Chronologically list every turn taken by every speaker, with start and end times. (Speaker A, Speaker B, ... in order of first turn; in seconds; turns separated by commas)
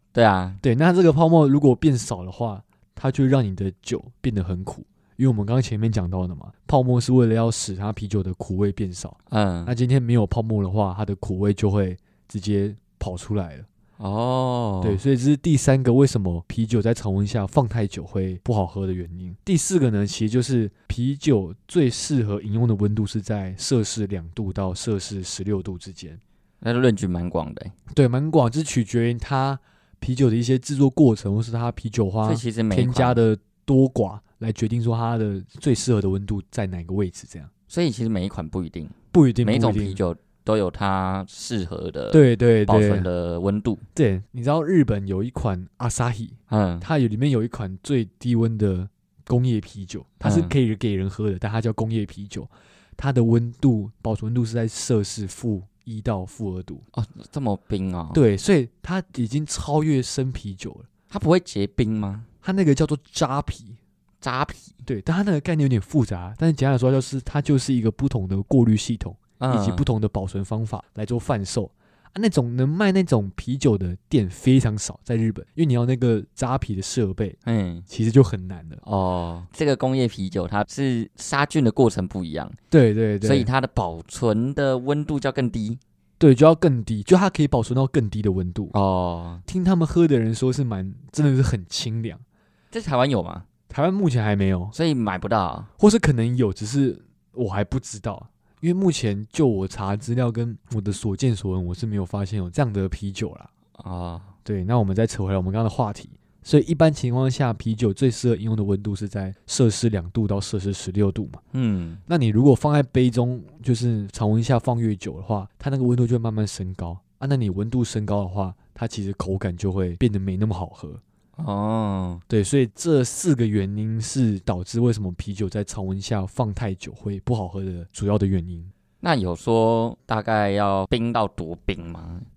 Speaker A: 0.1-0.6, Speaker B: 0.6-13.7, Speaker A: 9.3-9.7, Speaker A: 14.0-15.0, Speaker B: 14.8-26.2, Speaker A: 26.6-27.7, Speaker B: 27.9-37.5, Speaker A: 32.2-33.2, Speaker A: 37.7-43.8, Speaker B: 39.1-40.0, Speaker B: 42.1-43.1, Speaker B: 43.9-56.8, Speaker A: 46.5-46.9, Speaker A: 50.2-50.5, Speaker A: 56.9-58.2, Speaker B: 58.1-60.9, Speaker A: 61.1-62.3, Speaker B: 62.4-63.8, Speaker A: 64.2-64.7, Speaker B: 64.8-77.4, Speaker A: 69.4-69.9, Speaker A: 77.4-77.8, Speaker B: 77.9-78.8, Speaker A: 78.8-82.6, Speaker B: 82.7-83.5, Speaker A: 83.2-85.8, Speaker B: 86.2-88.7, Speaker A: 88.7-89.4, Speaker B: 89.5-92.2, Speaker A: 92.7-93.5, Speaker B: 93.7-94.7, Speaker A: 94.7-95.7, Speaker B: 95.8-103.5, Speaker A: 103.8-104.3, Speaker B: 104.5-111.4, Speaker A: 111.5-112.0, Speaker B: 112.1-121.0, Speaker A: 121.4-122.2, Speaker B: 122.3-128.7, Speaker A: 129.0-132.2